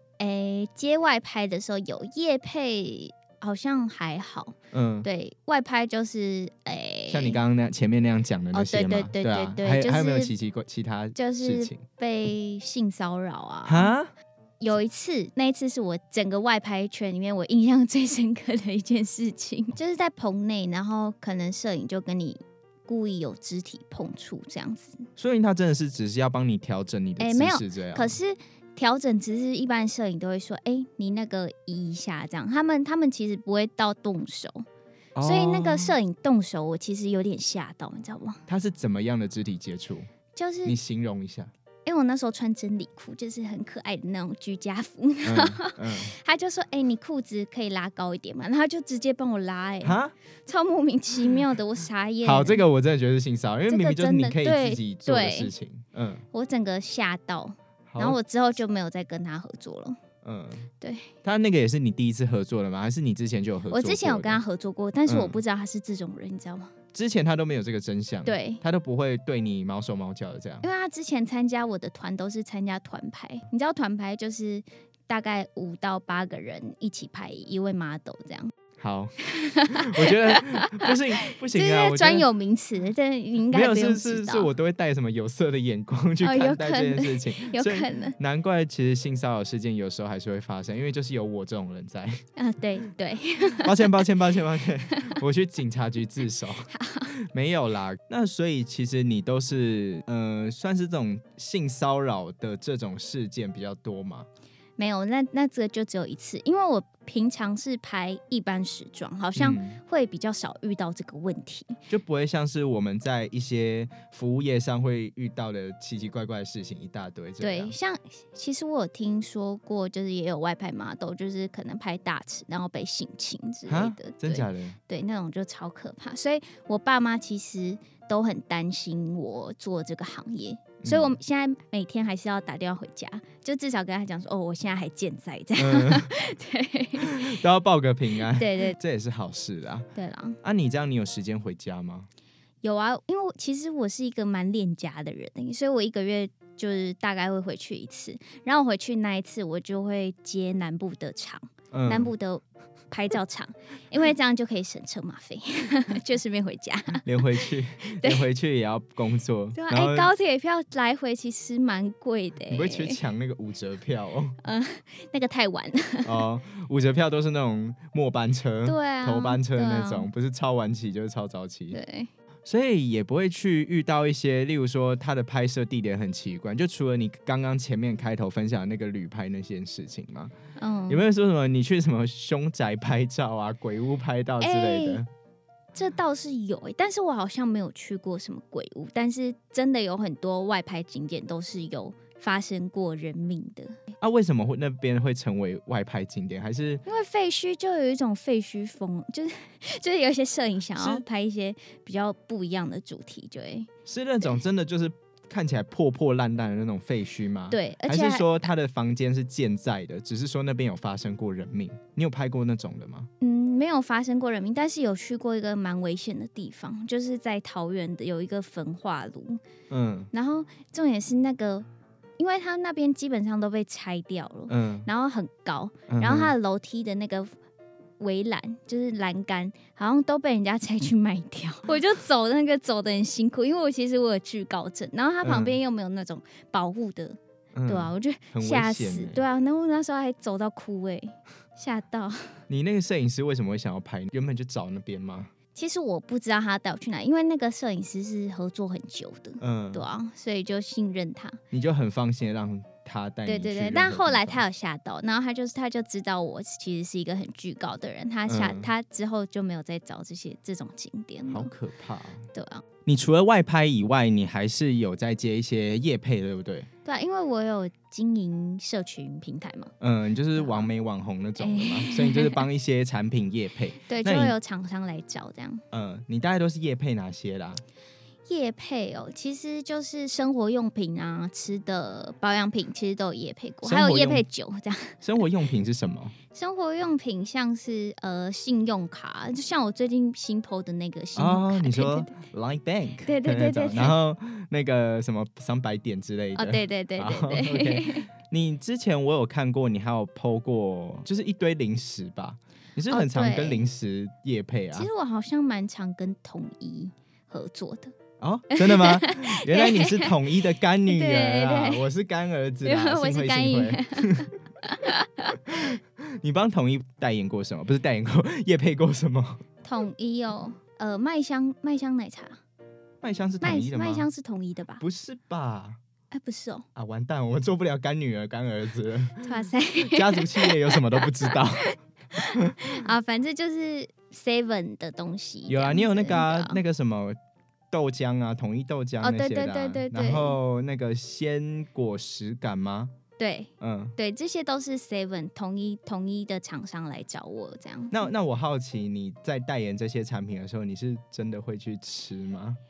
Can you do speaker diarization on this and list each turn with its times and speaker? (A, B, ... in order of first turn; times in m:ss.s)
0:00.2-0:07.4 A
0:04.7-0:05.1 B
0:07.1-0:11.8 B
0:08.5-0:10.3 A
0:11.2-0:13.9 A
0:13.7-0:14.1 B
0:14.6-0:25.0 A
0:25.2-0:28.2 B
0:27.2-0:34.6 A
0:35.2-0:36.0 B
0:35.2-0:38.4 A
0:38.5-0:40.1 B
0:40.4-0:40.8 A
0:40.6-0:41.5 B
0:41.9-0:52.6 A
0:45.2-0:46.1 B
0:49.8-0:50.1 B
0:52.2-0:56.2 B
0:53.7-0:55.5 A
0:56.3-1:00.0 A
0:57.9-0:58.2 B
1:00.2-1:00.7 B
1:00.8-1:01.1 A
1:01.2-1:04.4 B
1:03.7-1:06.7 A
1:05.1-1:05.4 B
1:06.9-1:10.7 B
1:08.3-1:08.6 A
1:10.6-1:18.5 A
1:18.8-1:19.2 B
1:19.2-1:21.0 A
1:19.7-1:22.3 B
1:21.5-1:24.5 A
1:23.5-1:32.2 B
1:26.2-1:28.2 A
1:32.4-1:33.9 A
1:33.6-1:44.3 B
1:36.7-1:37.1 A
1:44.8-1:51.8 A
1:49.4-1:49.8 B
1:51.9-1:57.7 B
1:57.4-2:17.4 A
2:03.7-2:04.8 B
2:10.8-2:11.2 B
2:15.6-2:16.1 B
2:17.0-2:19.9 B
2:18.2-2:18.8 A
2:20.0-2:20.4 A
2:20.4-2:22.1 B
2:22.6-2:38.2 A
2:31.7-2:32.1 B
2:37.0-2:40.1 B
2:39.6-2:43.0 A
2:42.5-2:44.4 B
2:44.4-2:46.2 A
2:46.0-2:51.8 B
2:48.6-2:50.1 A
2:51.7-2:52.1 A
2:52.5-3:00.3 B
3:00.6-3:01.0 A
3:00.9-3:05.1 B
3:04.4-3:05.0 A
3:05.7-3:13.8 A
3:14.0-3:16.8 B
3:16.8-3:23.7 A
3:20.8-3:21.0 B
3:23.9-3:33.1 B
3:27.5-3:28.5 A
3:33.2-3:39.4 A
3:39.7-3:40.1 B
3:40.1-3:41.7 A
3:42.2-3:47.3 A
3:44.5-3:44.9 B
3:45.9-3:46.3 B
3:48.0-4:02.4 A
3:55.2-3:55.6 B
3:57.6-3:59.2 B
4:02.5-4:05.3 B
4:05.6-4:11.4 A
4:09.4-4:09.8 B
4:11.5-4:14.4 B
4:13.3-4:21.5 A
4:18.3-4:18.7 B
4:21.3-4:22.3 B
4:22.3-4:22.6 A
4:22.8-4:26.7 B
4:26.8-4:29.7 A
4:29.8-4:34.4 B
4:30.4-4:30.7 A
4:31.4-4:32.5 A
4:33.9-4:35.6 A
4:35.7-4:37.6 B
4:38.3-4:45.0 A
4:43.6-4:44.2 B
4:45.0-4:46.2 B
4:46.3-4:52.1 A
4:51.2-5:04.9 B
4:53.0-4:54.0 A
4:56.4-4:58.1 A
5:02.9-5:03.6 A
5:04.7-5:07.9 A
5:08.2-5:14.3 B
5:08.5-5:10.2 A
5:10.9-5:11.8 A
5:12.6-5:15.4 A
5:15.4-5:19.4 B
5:19.6-5:22.4 A
5:23.0-5:24.1 B
5:23.4-5:24.8 A
5:24.8-5:25.8 B
5:26.1-5:26.7 A
5:26.8-5:29.2 B
5:29.2-5:36.6 A
5:29.8-5:31.7 B
5:32.3-5:32.8 B
5:35.5-5:37.2 B
5:37.7-5:42.9 B
5:39.0-5:40.4 A
5:43.2-5:48.1 A
5:43.6-5:44.0 B
5:47.9-5:52.6 B